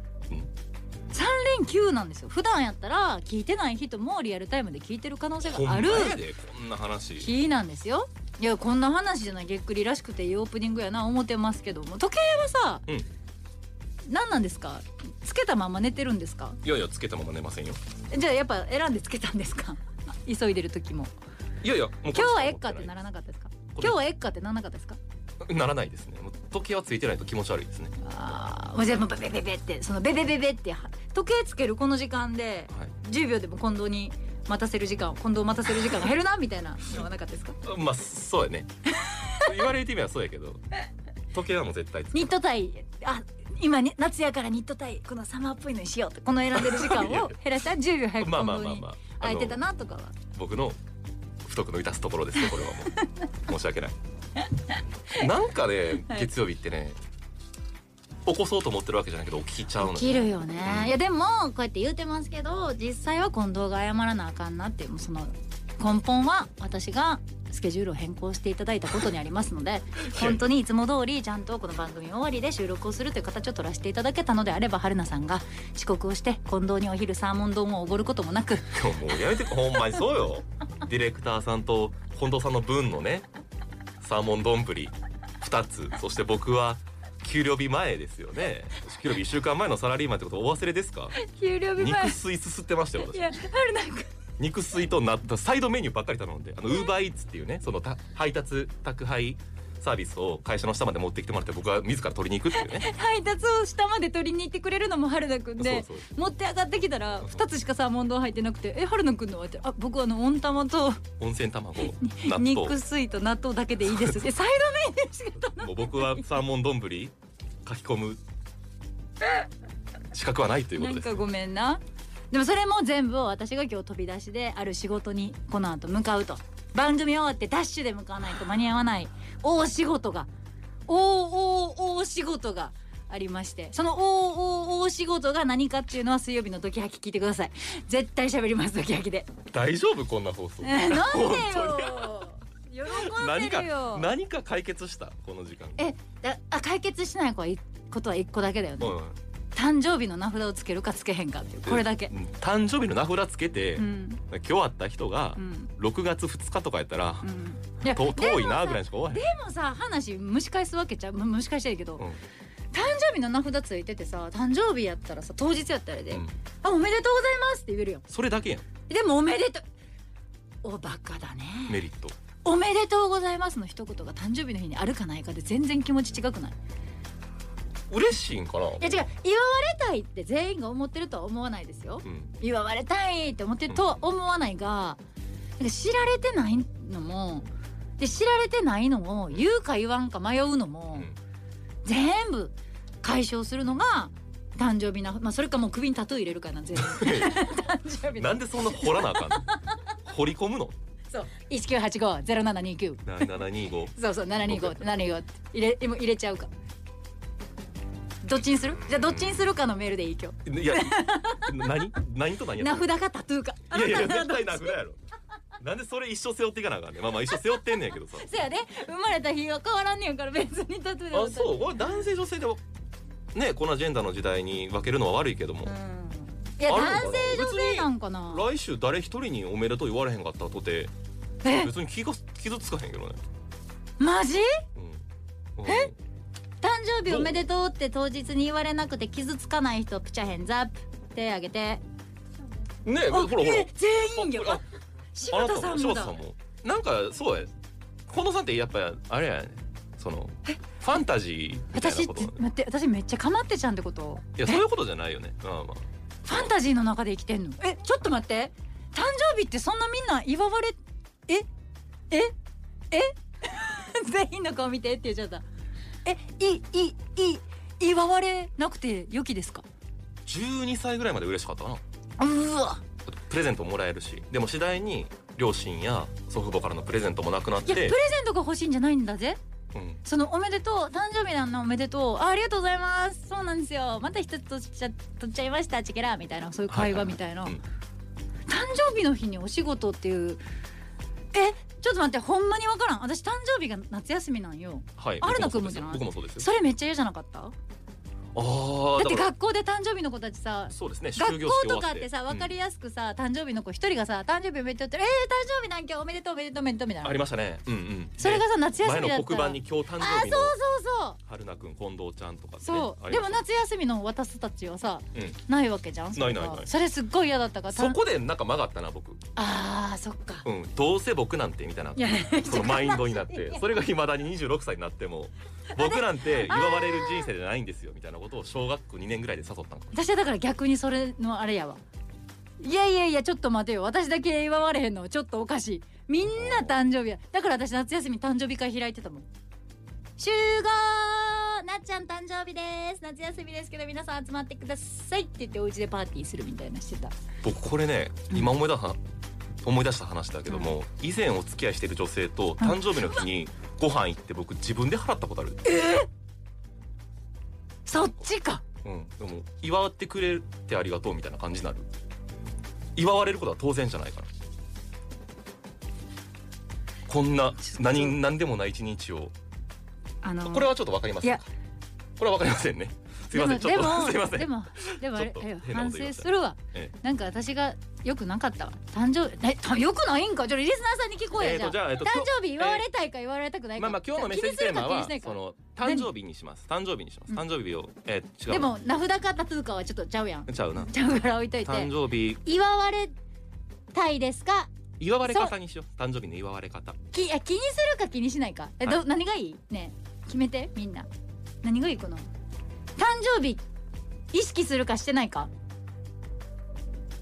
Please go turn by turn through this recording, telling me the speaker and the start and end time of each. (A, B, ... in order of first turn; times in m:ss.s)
0:01.1-0:06.2 A
0:05.4-0:07.3 B
0:07.2-0:12.8 A
0:14.1-0:16.6 A
0:16.6-0:17.8 B
0:18.1-0:21.1 A
0:21.6-0:22.9 B
0:22.1-0:25.0 A
0:25.4-0:27.9 B
0:28.0-0:37.6 A
0:37.6-0:38.7 B
0:39.0-0:39.5 A
0:39.3-0:40.6 B
0:41.3-0:42.4 B
0:42.1-0:50.1 A
0:46.5-0:47.4 B
0:48.2-0:49.6 B
0:50.3-0:50.8 B
0:51.4-0:54.0 B
0:55.1-0:57.0 B
0:58.2-1:01.0 B
0:59.8-1:18.8 A
1:10.1-1:10.5 B
1:18.7-1:23.3 B
1:24.0-1:31.2 B
1:31.2-1:32.2 A
1:31.8-1:33.2 B
1:33.1-1:34.1 A
1:34.4-1:42.9 B
1:42.5-1:51.0 A
1:45.6-1:46.0 B
1:51.2-1:52.8 B
1:51.9-1:56.2 A
1:55.6-1:57.1 B
1:57.6-1:58.2 B
2:00.1-2:01.2 B
2:00.8-2:10.3 A
2:10.9-2:19.3 A
2:19.5-2:22.3 B
2:20.6-2:24.1 A
2:22.9-2:25.8 B
2:25.8-2:29.0 A
2:28.8-2:29.2 B
2:29.5-2:32.1 A
2:31.6-2:37.3 B
2:33.8-2:34.2 A
2:35.4-2:35.7 A
2:37.2-2:42.0 A
2:37.8-2:39.3 B
2:42.7-2:48.0 A
2:48.1-2:48.6 B
2:48.9-2:49.6 A
2:50.6-2:51.8 A
2:51.7-2:52.1 B
2:52.4-2:56.6 A
2:57.9-2:59.0 B
2:58.8-3:05.0 A
3:02.0-3:02.3 B
3:05.6-3:07.5 A
3:08.0-3:11.1 A
3:11.8-3:19.6 A
3:16.8-3:17.6 B
3:18.2-3:19.5 B
3:20.0-3:20.7 B
3:21.1-3:23.3 A
3:23.0-3:23.9 B
3:23.9-3:26.5 A
3:24.4-3:24.9 B
3:28.2-3:31.7 A
3:28.8-3:29.4 B
3:30.4-3:32.9 B
3:32.6-3:34.7 A
3:33.7-3:35.0 B
3:35.6-3:38.3 B
3:38.2-3:41.6 A
3:41.1-3:42.6 B
3:43.3-3:45.7 B
3:45.6-3:48.4 A
3:46.6-3:50.9 B
3:51.4-3:51.7 A
3:51.5-3:53.2 B
3:54.0-3:54.6 A
3:54.8-3:55.0 B
3:55.6-3:55.9 B
3:55.6-3:55.9 A
3:56.6-4:01.8 A
3:57.1-3:57.4 B
4:02.8-4:04.6 B
4:03.1-4:04.6 A
4:05.1-4:06.2 A
4:05.2-4:07.5 B
4:08.1-4:12.4 B
4:11.7-4:14.6 A
4:14.4-4:16.5 B
4:16.2-4:21.5 A
4:22.9-4:25.4 A
4:26.0-4:29.6 A
4:30.2-4:31.8 B
4:32.2-4:32.8 A
4:33.0-4:38.0 B
4:37.7-4:39.4 A
4:39.7-4:40.0 B
4:40.0-4:47.6 A
4:46.7-4:47.6 B
4:48.5-4:50.4 A
4:51.3-4:57.5 A
4:55.0-4:56.5 B
4:58.3-4:59.3 B
4:59.0-5:07.2 A
5:00.7-5:02.5 B
5:07.0-5:10.5 B
5:08.2-5:11.2 A
5:11.2-5:13.4 B
5:12.6-5:18.0 A
5:16.1-5:16.7 B
5:17.7-5:19.2 B
5:19.4-5:20.4 A
5:20.4-5:29.9 B
5:22.0-5:23.6 A
5:25.8-5:27.3 A
5:29.9-5:31.8 A
5:32.6-5:39.2 A
5:36.2-5:36.7 B
5:40.2-5:47.1 A
5:47.4-5:49.0 B
5:49.6-5:55.6 B
5:52.6-5:53.2 A
5:55.6-5:56.1 A
5:57.9-5:58.6 A
5:58.8-6:01.9 B
6:03.0-6:04.3 B
6:07.1-6:09.3 B
6:07.6-6:08.1 A
6:10.2-6:11.4 A
6:10.4-6:11.4 B
6:12.2-6:16.9 B
6:13.3-6:26.1 A
6:21.4-6:22.9 B
6:23.8-6:28.8 B
6:28.5-6:31.9 A
6:30.5-6:30.9 B
6:31.6-6:32.4 B
6:32.4-6:33.1 A
6:33.9-6:34.7 A
6:35.0-6:37.0 B
6:35.2-6:35.5 A
6:37.1-6:41.1 A
6:41.6-6:42.2 A
6:43.0-6:43.6 A
6:44.3-6:45.5 A